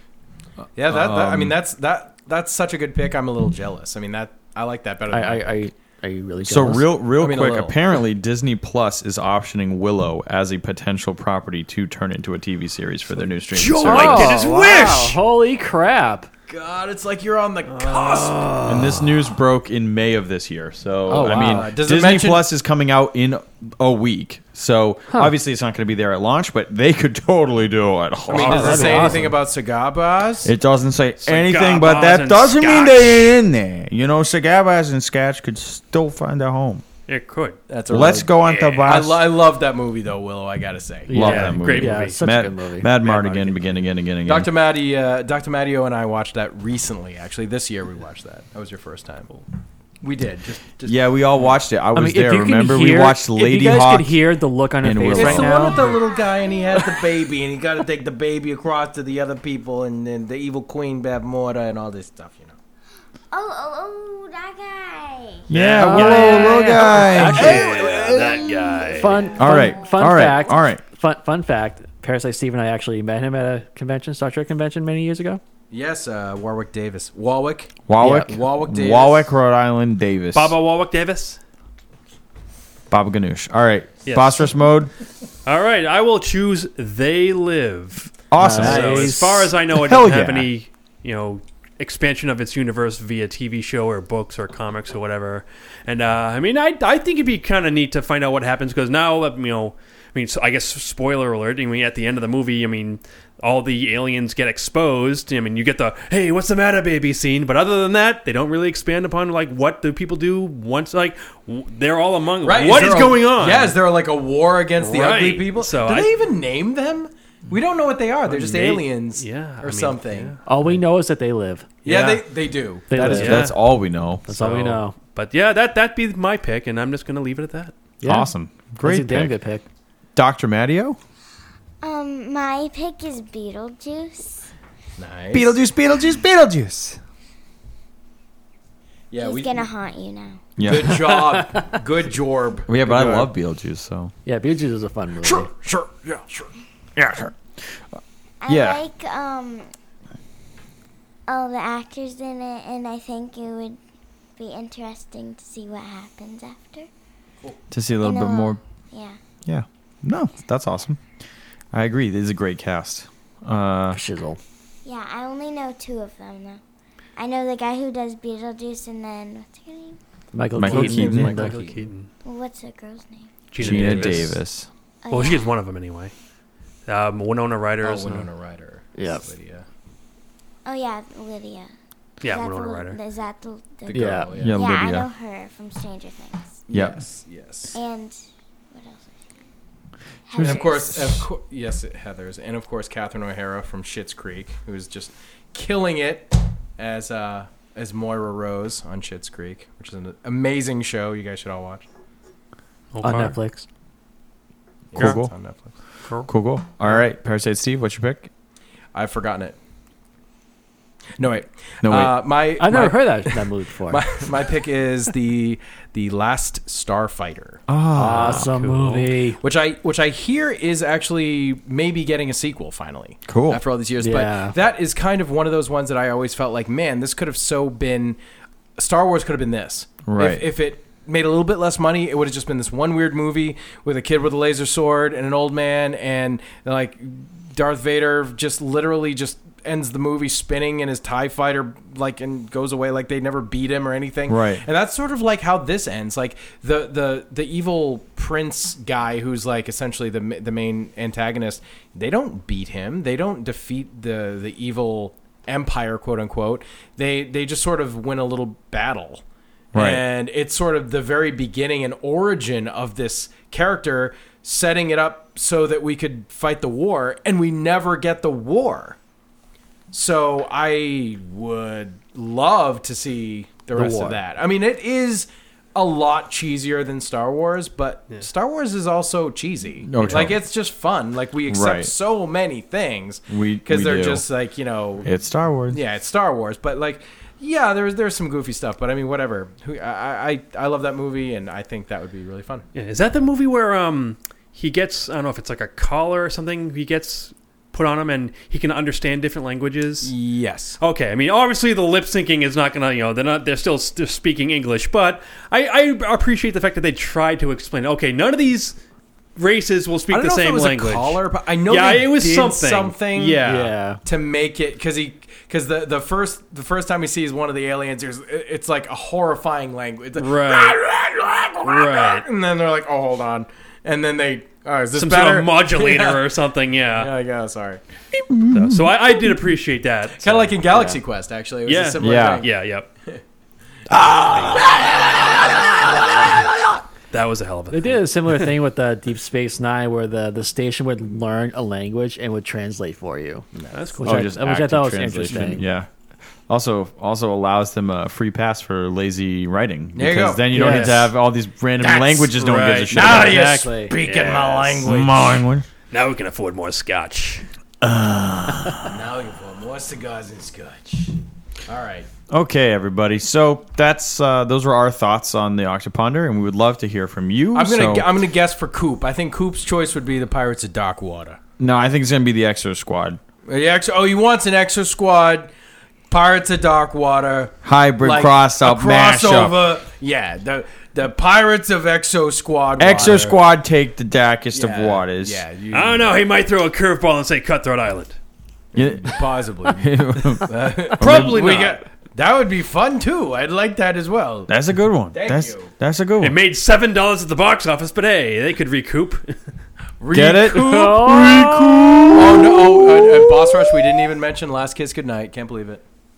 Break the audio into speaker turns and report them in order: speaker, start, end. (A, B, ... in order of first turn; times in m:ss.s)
0:00.8-0:05.5 A
0:00.8-0:01.6 B
0:05.1-0:06.9 C
0:06.4-0:14.4 B
0:07.2-0:07.8 A
0:13.5-0:15.2 D
0:13.8-0:16.3 C
0:14.5-0:14.8 A
0:16.5-0:18.5 A
0:17.7-0:19.3 D
0:18.6-0:29.3 B
0:21.1-0:21.7 C
0:21.1-0:22.5 A
0:28.3-0:30.5 A
0:28.3-0:29.3 C
0:30.4-0:36.8 B
0:31.2-0:33.1 D
0:37.1-0:37.6 D
0:37.7-0:41.1 A
0:37.9-0:39.2 B
0:38.4-0:38.9 D
0:41.1-0:43.0 C
0:41.1-0:44.5 B
0:41.1-0:42.2 D
0:44.2-0:49.4 A
0:50.0-0:51.0 A
0:50.8-0:54.2 B
0:51.9-0:55.8 C
0:54.8-0:55.6 B
0:55.1-1:02.5 A
0:55.8-0:56.9 E
1:03.3-1:05.4 E
1:05.5-1:07.9 B
1:05.5-1:09.3 D
1:05.8-1:07.6 C
1:06.8-1:08.4 A
1:08.9-1:15.4 C
1:09.3-1:09.9 E
1:09.4-1:10.8 B
1:15.7-1:19.3 A
1:17.9-1:20.6 B
1:18.0-1:18.3 C
1:20.3-1:21.4 D
1:22.9-1:24.9 B
1:24.0-1:24.5 D
1:25.4-1:53.8 D
1:28.3-1:30.5 B
1:28.4-1:29.5 C
1:52.4-2:00.3 A
1:54.8-1:56.1 D
1:58.2-2:00.8 D
2:00.4-2:01.8 C
2:01.8-2:02.2 D
2:01.8-2:03.4 A
2:02.9-2:03.5 C
2:03.0-2:03.6 D
2:03.1-2:04.2 B
2:04.3-2:05.0 C
2:04.3-2:07.8 D
2:08.0-2:08.3 C
2:08.0-2:09.4 B
2:08.8-2:09.6 C
2:10.2-2:11.0 B
2:11.8-2:14.4 E
2:15.0-2:15.6 A
2:15.3-2:17.0 B
2:19.1-2:19.6 A
2:19.2-2:20.4 E
2:20.6-2:21.1 B
2:20.6-2:23.2 A
2:21.4-2:21.6 C
2:22.7-2:24.1 B
2:24.2-2:25.5 C
2:25.2-2:26.5 A
2:27.0-2:27.8 B
2:28.4-2:29.7 E
2:28.5-2:28.8 B
2:31.3-2:33.8 E
2:34.4-2:36.9 E
2:37.7-2:38.6 B
2:38.0-2:39.2 E
2:39.4-2:41.0 B
2:41.7-2:44.0 B
2:43.9-2:44.4 C
2:44.8-2:46.6 E
2:47.2-2:50.0 E
2:50.3-2:51.5 C
2:50.5-2:51.4 B
2:50.6-2:51.9 A
2:51.3-2:52.1 D
2:52.2-2:53.4 E
2:53.5-2:54.4 D
2:53.6-2:54.7 B
2:53.6-2:54.1 A
2:55.0-2:55.5 E
2:55.1-2:56.1 D
2:56.8-2:58.3 D
2:57.8-2:59.6 A
2:58.9-2:59.3 C
3:00.6-3:01.7 E
3:02.2-3:03.0 D
3:02.2-3:06.6 E
3:03.9-3:04.6 A
3:03.9-3:04.3 C
3:04.3-3:05.1 B
3:06.7-3:07.8 A
3:06.7-3:07.0 B
3:07.7-3:08.2 E
3:08.7-3:09.3 E
3:10.2-3:11.1 E
3:10.4-3:11.1 B
3:10.4-3:21.9 A
3:22.9-3:23.4 D
3:23.0-3:23.6 C
3:24.9-3:25.7 A
3:25.0-3:25.3 B
3:26.3-3:28.3 B
3:28.9-3:29.6 A
3:31.2-3:37.6 A
3:31.8-3:32.1 B
3:32.6-3:34.1 C
3:37.7-3:38.5 B
3:37.9-3:39.4 C
3:38.1-3:39.1 D
3:39.4-3:48.2 A
3:43.3-3:43.6 B
3:44.0-3:44.5 C
3:48.8-4:29.0 A
3:50.0-3:50.4 B
4:04.3-4:04.6 B
4:19.7-4:20.0 B
4:29.9-4:45.1 A
4:33.7-4:34.2 C
4:39.8-4:40.4 B
4:41.5-4:41.9 B
4:43.3-4:44.2 B
4:45.0-4:45.8 B
4:45.7-4:52.6 A
4:52.7-5:00.1 D
5:00.0-5:00.8 A
5:00.8-5:08.8 D
5:09.4-5:13.6 D
5:10.1-5:26.2 A
5:13.4-5:14.0 C
5:20.2-5:20.8 D
5:21.6-5:22.2 D
5:24.9-5:27.1 D
5:26.9-5:27.8 A
5:28.1-5:29.4 B
5:28.5-5:31.0 D
5:30.2-5:32.5 A
5:31.6-5:32.9 D
5:32.0-5:32.4 B
5:34.1-5:34.7 D
5:37.1-5:38.5 D
5:37.7-5:43.4 C
5:43.6-5:43.9 A
5:43.7-5:44.2 D
5:44.0-5:45.6 C
5:44.0-5:45.9 B
5:46.5-5:53.6 B
5:50.0-5:50.6 A
5:50.5-5:51.1 C
5:51.8-5:52.3 A
5:52.3-5:54.8 D
5:52.9-5:55.4 A
5:53.0-5:53.9 C
5:54.8-5:55.6 B
5:55.9-5:57.4 D
5:57.8-5:58.9 B
5:58.8-6:01.1 A
6:01.7-6:02.1 A
6:02.3-6:08.1 B
6:07.5-6:11.4 A
6:11.6-6:13.2 B
6:13.5-6:15.5 A
6:16.1-6:23.4 A
6:17.6-6:19.6 B
6:22.8-6:25.4 B
6:24.5-6:26.1 A
6:25.7-6:28.2 D
6:28.7-6:29.9 A
6:28.7-6:31.6 B
6:30.4-6:34.5 A
6:31.0-6:31.8 D
6:34.5-6:36.4 B
6:35.1-6:35.7 A
6:36.2-6:39.4 D
6:40.0-6:41.2 A
6:40.1-6:43.6 B
6:40.7-6:41.5 C
6:42.1-6:45.8 A